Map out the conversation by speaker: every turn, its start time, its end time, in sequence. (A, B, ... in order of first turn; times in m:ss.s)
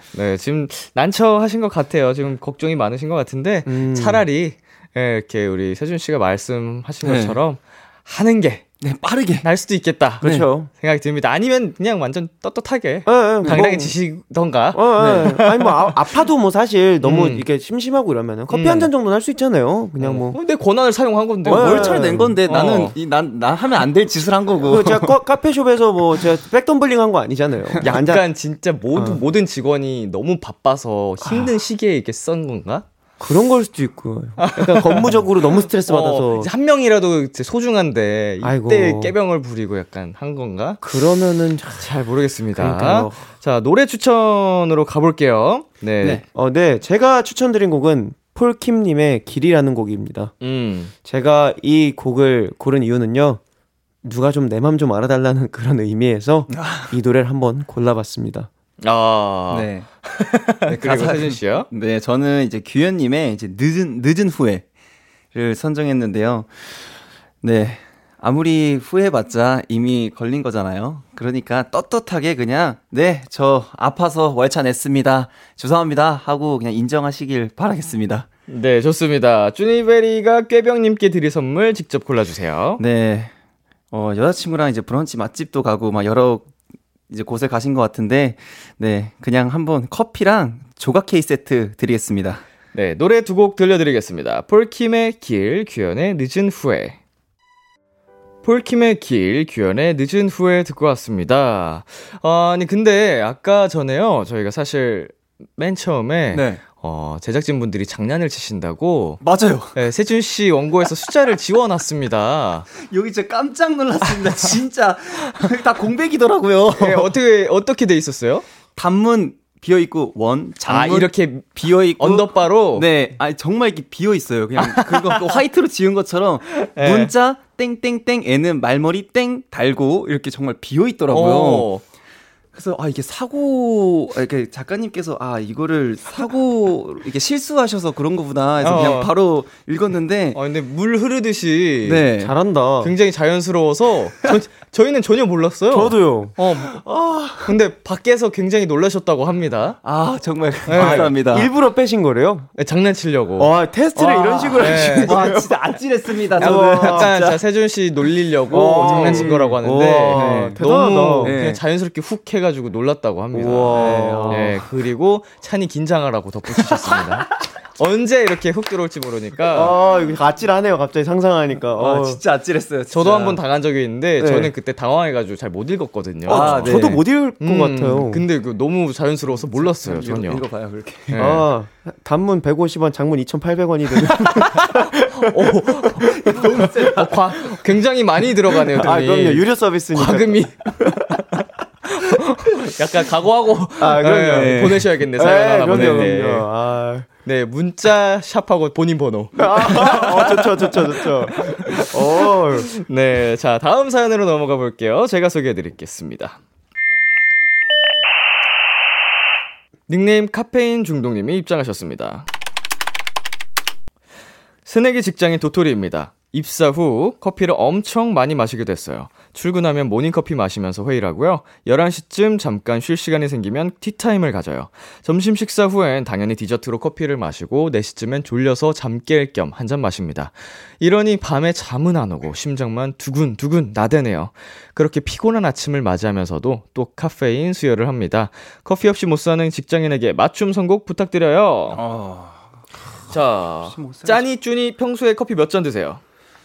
0:00.1-0:08.7 A
0:03.7-0:04.2 B
0:07.0-0:07.4 C
0:08.8-0:09.5 C
0:09.4-0:15.7 A
0:10.2-0:10.5 C
0:10.2-0:10.7 B
0:13.1-0:13.9 B
0:14.7-0:20.4 B
0:15.0-0:15.4 C
0:17.0-0:17.4 A
0:18.5-0:18.9 A
0:20.0-0:23.0 A
0:21.5-0:22.4 B
0:21.5-0:25.1 C
0:24.6-0:28.2 B
0:27.8-0:32.9 A
0:28.9-0:29.2 B
0:33.2-0:36.5 B
0:34.4-0:40.8 A
0:38.4-0:39.1 B
0:40.8-0:41.9 B
0:41.8-0:46.2 A
0:42.6-0:43.2 B
0:46.3-0:50.3 B
0:50.4-0:50.9 A
0:51.0-0:53.4 B
0:54.0-0:58.5 B
0:56.5-0:57.0 C
0:58.8-1:01.7 A
0:59.5-0:59.9 C
1:00.7-1:04.6 C
1:05.3-1:18.3 C
1:18.5-1:22.8 A
1:22.8-1:23.3 C
1:23.9-1:26.5 C
1:27.1-1:32.4 C
1:32.7-1:37.0 A
1:38.4-1:49.2 A
1:46.3-1:46.6 C
1:49.2-1:49.8 C
1:49.7-1:52.7 A
1:52.8-1:57.1 C
1:56.8-1:58.4 A
1:58.8-2:11.7 C
2:00.7-2:02.9 A
2:04.6-2:05.2 A
2:06.5-2:07.1 A
2:11.1-2:11.8 A
2:12.5-2:20.4 C
2:18.6-2:19.1 A
2:20.3-2:22.0 A
2:21.8-2:22.3 C
2:22.2-2:22.9 B
2:22.8-2:26.8 A
2:25.7-2:26.3 B
2:26.9-2:27.2 B
2:27.4-2:29.8 A
2:29.8-2:31.5 C
2:30.7-2:31.1 A
2:30.8-2:32.5 B
2:32.6-2:33.5 A
2:33.4-2:35.5 B
2:34.0-2:37.4 C
2:34.6-2:35.3 A
2:36.3-2:37.2 B
2:36.4-2:49.8 A
2:38.5-2:41.4 B
2:38.8-2:39.6 C
2:40.1-2:40.6 C
2:41.2-2:41.6 C
2:43.3-2:44.6 B
2:43.7-2:44.5 C
2:46.7-2:47.3 C
2:49.5-2:52.2 B
2:51.8-2:53.4 C
2:52.9-2:56.8 A
2:54.2-2:54.5 B
2:56.3-2:57.0 C
2:56.3-2:58.2 B
2:57.4-3:00.4 A
2:59.6-3:01.2 C
3:01.1-3:01.5 A
3:01.2-3:05.5 B
3:05.0-3:16.5 A
3:06.0-3:07.6 C
3:08.8-3:10.9 B
3:13.8-3:17.1 B
3:14.2-3:14.9 C
3:15.6-3:16.1 C
3:17.2-3:26.4 A
3:19.4-3:22.7 B
3:19.9-3:20.4 C
3:29.9-3:32.3 A
3:34.7-4:01.8 A
4:01.7-4:02.5 C
4:03.1-4:06.0 A
4:03.6-4:04.2 C